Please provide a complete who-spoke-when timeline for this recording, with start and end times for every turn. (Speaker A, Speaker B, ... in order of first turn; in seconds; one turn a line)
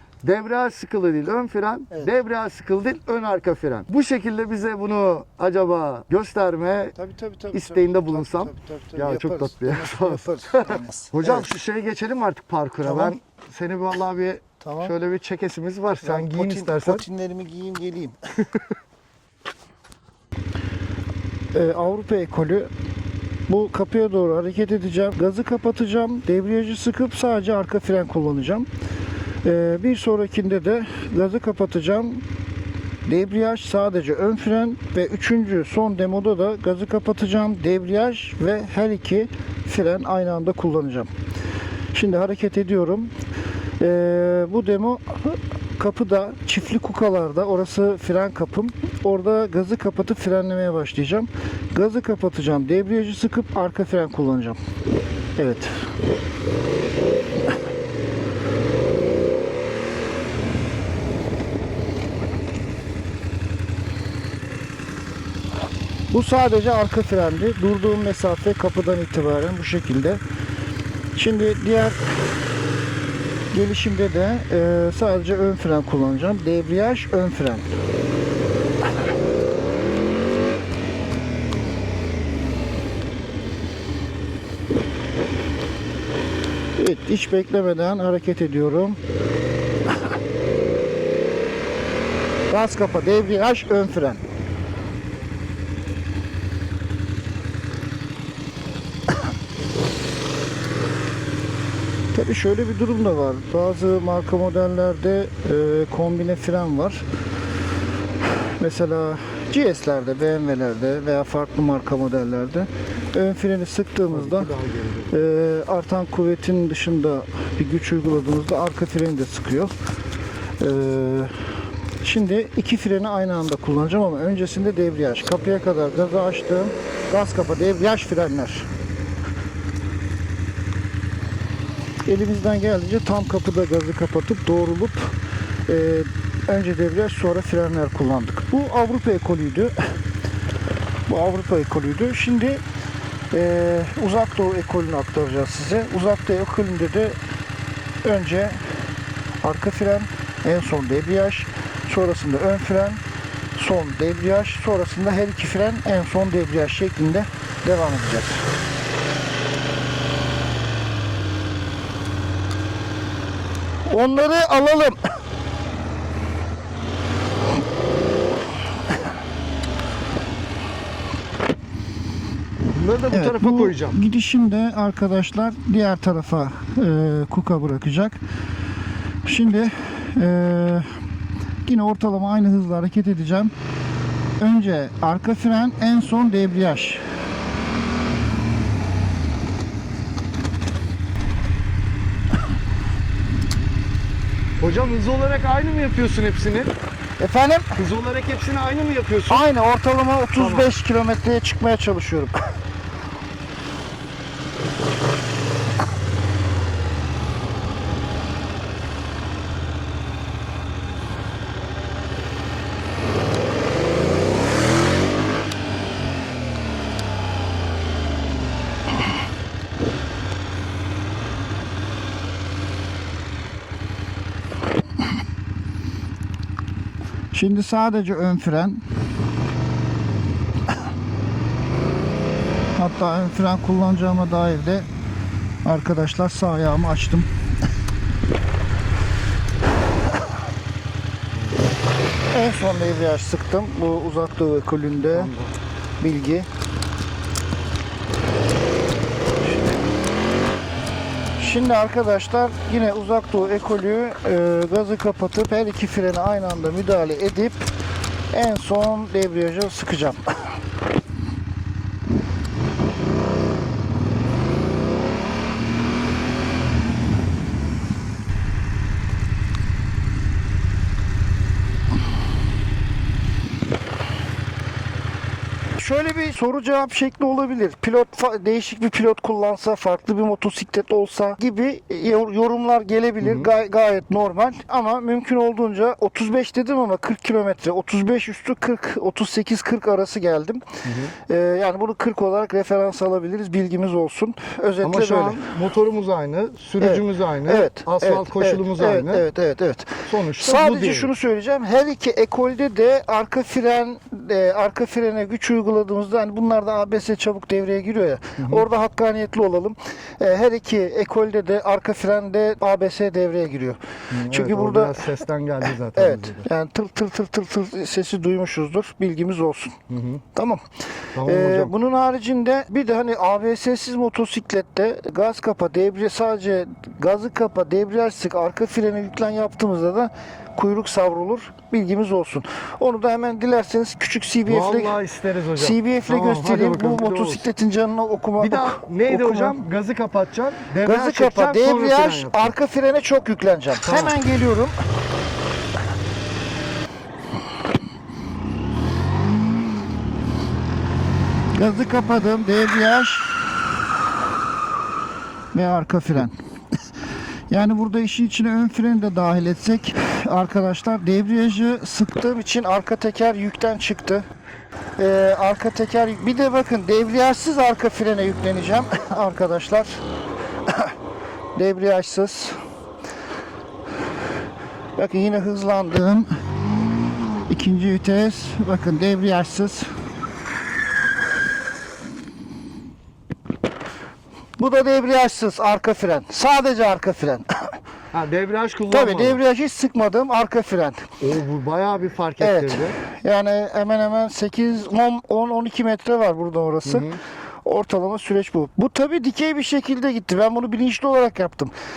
Speaker A: 0.2-6.9
Speaker B: 7.0-11.5
Speaker A: 7.5-17.0
Speaker B: 12.8-13.1
Speaker B: 14.6-14.9
Speaker B: 16.0-18.1
Speaker B: 21.5-22.7
Speaker B: 23.5-28.7
Speaker B: 29.4-32.2
Speaker B: 33.0-41.1
Speaker B: 41.9-43.1
Speaker B: 43.8-54.6
Speaker B: 55.4-55.7
Speaker B: 66.1-70.2
Speaker B: 71.2-72.1
Speaker B: 73.5-77.7
Speaker B: 86.8-89.0
Speaker B: 92.5-94.2
Speaker B: 102.1-107.0
Speaker B: 108.6-114.5
Speaker A: 114.1-115.2
Speaker B: 115.1-119.7
Speaker B: 120.6-121.4
Speaker B: 122.0-128.7
Speaker B: 132.1-135.1
Speaker B: 135.7-139.7
Speaker B: 141.1-142.6
Speaker B: 143.3-147.2
Speaker B: 148.0-148.6
Speaker B: 149.4-153.0
Speaker B: 153.6-158.4
Speaker B: 163.8-165.0
Speaker A: 172.7-174.0
Speaker B: 173.1-178.2
Speaker B: 179.2-180.9
Speaker B: 181.7-183.5
Speaker B: 184.4-187.0
Speaker A: 194.6-196.7
Speaker B: 197.2-197.8
Speaker A: 197.8-199.5
Speaker B: 199.3-202.3
Speaker A: 200.4-200.7
Speaker B: 227.3-228.8
Speaker B: 232.8-234.9
Speaker B: 235.6-237.3
Speaker B: 242.3-245.3
Speaker A: 245.1-245.5
Speaker B: 246.0-246.5
Speaker B: 251.4-257.7
Speaker B: 258.3-260.4
Speaker B: 275.8-290.6
Speaker A: 283.2-283.5
Speaker A: 290.8-291.1
Speaker B: 291.3-295.5
Speaker A: 294.8-299.2
Speaker B: 296.8-315.1
Speaker A: 300.1-301.1
Speaker A: 308.4-308.7
Speaker A: 314.1-316.5
Speaker B: 315.9-319.8
Speaker A: 319.9-320.2
Speaker B: 320.3-320.6
Speaker A: 321.1-321.7
Speaker B: 321.2-335.0
Speaker A: 334.4-337.5
Speaker B: 335.6-339.6
Speaker A: 338.4-342.5
Speaker B: 340.8-344.8
Speaker A: 343.8-344.1
Speaker B: 351.5-353.5
Speaker B: 355.5-356.3
Speaker B: 357.5-364.2
Speaker B: 365.0-370.0
Speaker B: 370.7-370.9
Speaker B: 371.5-372.6
Speaker B: 374.9-376.3
Speaker B: 377.5-379.9
Speaker B: 384.6-387.7
Speaker A: 388.1-389.4
Speaker B: 388.9-391.1
Speaker A: 391.2-392.9
Speaker B: 392.4-397.1
Speaker A: 396.8-397.2
Speaker B: 397.6-401.7